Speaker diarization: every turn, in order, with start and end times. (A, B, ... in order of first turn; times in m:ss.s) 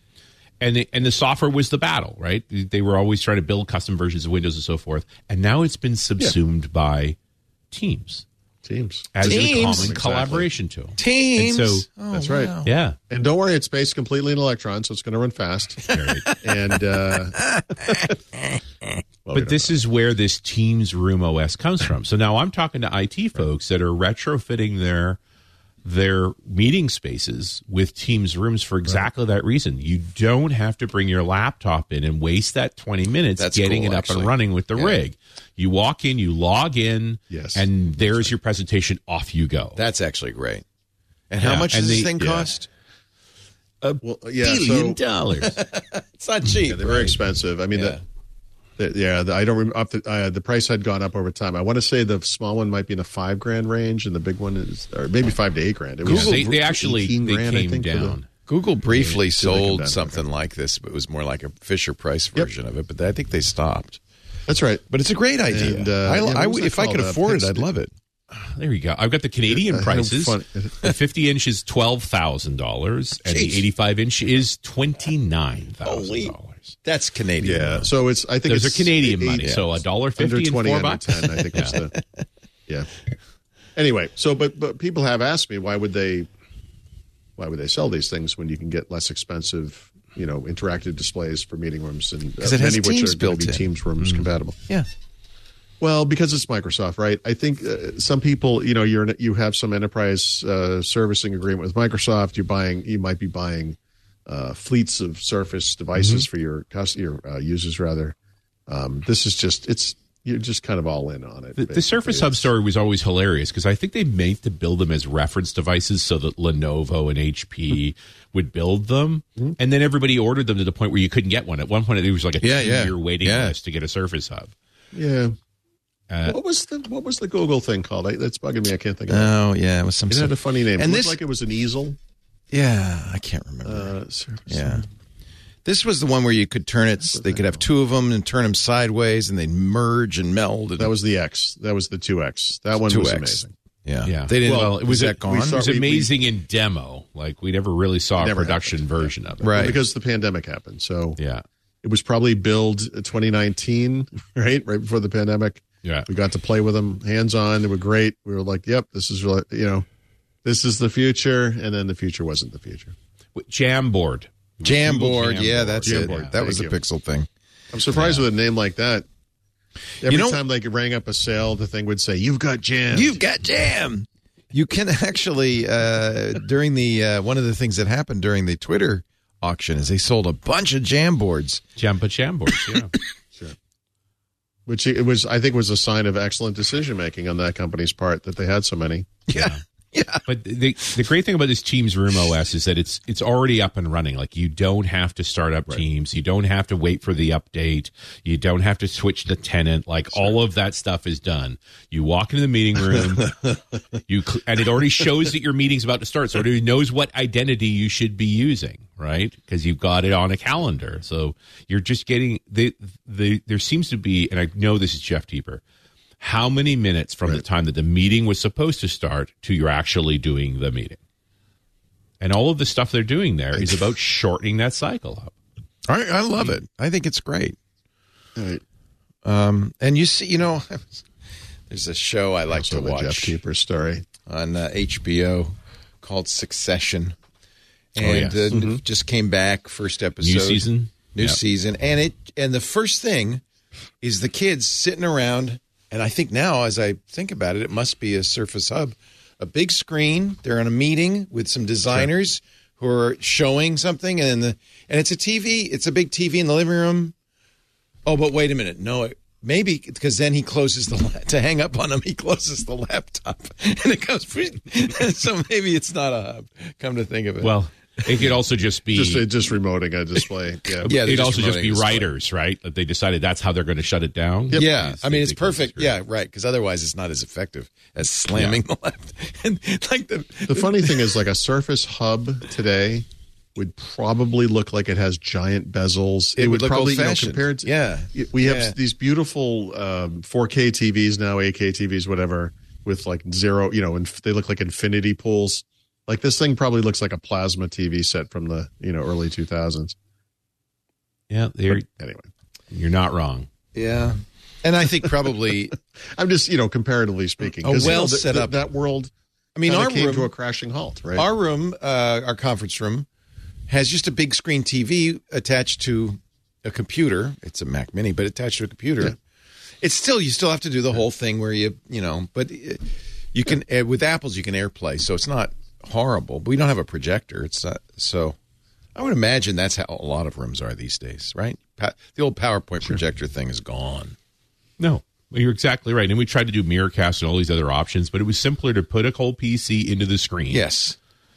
0:00.6-0:07.2 A
0:07.7-0:08.2 A
0:08.6-0:10.5 B
0:09.2-0:11.9 A
0:09.2-0:10.0 C
0:11.0-0:12.7 C
0:12.1-0:12.5 B
0:12.6-0:13.0 A
0:13.1-0:18.1 B
0:15.9-0:16.5 C
0:15.9-0:16.4 A
0:17.0-0:19.0 C
0:19.3-0:19.8 B
0:19.3-0:25.2 A
0:25.8-0:39.8 A
0:33.4-0:35.0 C
0:37.3-0:38.3 B
0:39.8-0:40.6 C
0:41.3-0:42.7 C
0:41.4-0:42.3 A
0:42.2-0:42.5 B
0:43.8-0:45.0 B
0:44.4-0:45.5 A
0:45.4-0:48.0 C
0:46.6-0:48.0 B
0:48.8-0:58.2 B
0:56.0-0:56.4 C
0:56.1-0:58.3 A
0:58.5-1:04.0 C
0:58.9-1:00.2 B
1:04.5-1:04.8 B
1:04.9-1:07.9 C
1:05.5-1:07.6 B
1:08.3-1:16.8 A
1:09.5-1:11.0 B
1:13.2-1:13.6 C
1:15.8-1:17.9 C
1:17.4-1:22.0 B
1:18.5-1:21.8 A
1:21.7-1:22.2 C
1:23.8-1:26.3 B
1:27.4-1:34.6 B
1:32.4-1:33.7 C
1:35.8-1:48.2 B
1:46.0-1:46.3 A
1:48.7-1:52.4 B
1:51.6-2:04.5 A
2:02.4-2:03.6 C
2:04.9-2:05.4 B
2:06.1-2:06.4 A
2:06.3-2:09.4 B
2:09.1-2:11.2 C
2:10.1-2:12.0 B
2:12.5-2:13.9 C
2:13.6-2:14.9 B
2:14.5-2:14.8 C
2:15.6-2:20.9 C
2:17.1-2:17.6 B
2:20.8-2:23.5 B
2:22.8-2:25.6 C
2:24.1-2:29.6 A
2:24.4-2:26.1 B
2:28.2-2:31.2 B
2:29.4-2:29.8 C
2:31.2-2:31.4 A
2:31.8-2:39.9 B
2:40.4-2:43.0 B
2:43.4-2:46.3 A
2:44.6-2:47.3 C
2:45.8-2:46.8 B
2:47.7-2:49.1 B
2:47.9-2:48.2 A
2:50.0-2:53.2 B
2:50.0-2:50.4 C
2:52.9-3:01.6 C
3:01.8-3:02.9 A
3:04.7-3:09.1 B
3:09.3-3:10.2 C
3:09.4-3:09.6 A
3:10.2-3:23.4 A
3:22.9-3:23.6 B
3:24.1-3:35.6 A
3:36.2-3:41.0 A
3:42.2-3:45.3 A
3:43.5-3:43.8 B
3:45.9-3:47.6 C
3:48.4-3:48.6 B
3:49.2-3:51.0 C
3:51.7-3:53.4 C
3:52.5-3:54.0 B
3:54.3-3:57.2 C
3:58.0-4:03.4 C
3:58.0-3:58.4 A
3:58.5-3:58.8 B
4:00.2-4:01.4 A
4:04.0-4:17.1 C
4:18.1-4:28.4 C
4:27.4-4:29.3 A
4:28.9-4:30.9 B
4:30.8-4:32.1 C
4:30.8-4:35.9 A
4:34.5-4:41.1 C
4:38.3-4:38.6 A
4:40.5-4:59.9 B
4:46.4-4:48.8 C
5:01.3-5:01.9 A
5:01.7-5:02.3 B
5:02.7-5:03.5 A
5:03.7-5:05.8 C
5:06.1-5:09.1 B
5:07.6-5:08.7 C
5:09.6-5:10.3 C
5:09.7-5:11.3 B
5:11.2-5:13.1 C
5:13.7-5:19.2 C
5:19.8-5:28.4 C
5:29.0-5:34.2 C
5:34.8-5:40.6 A
5:40.5-5:41.0 C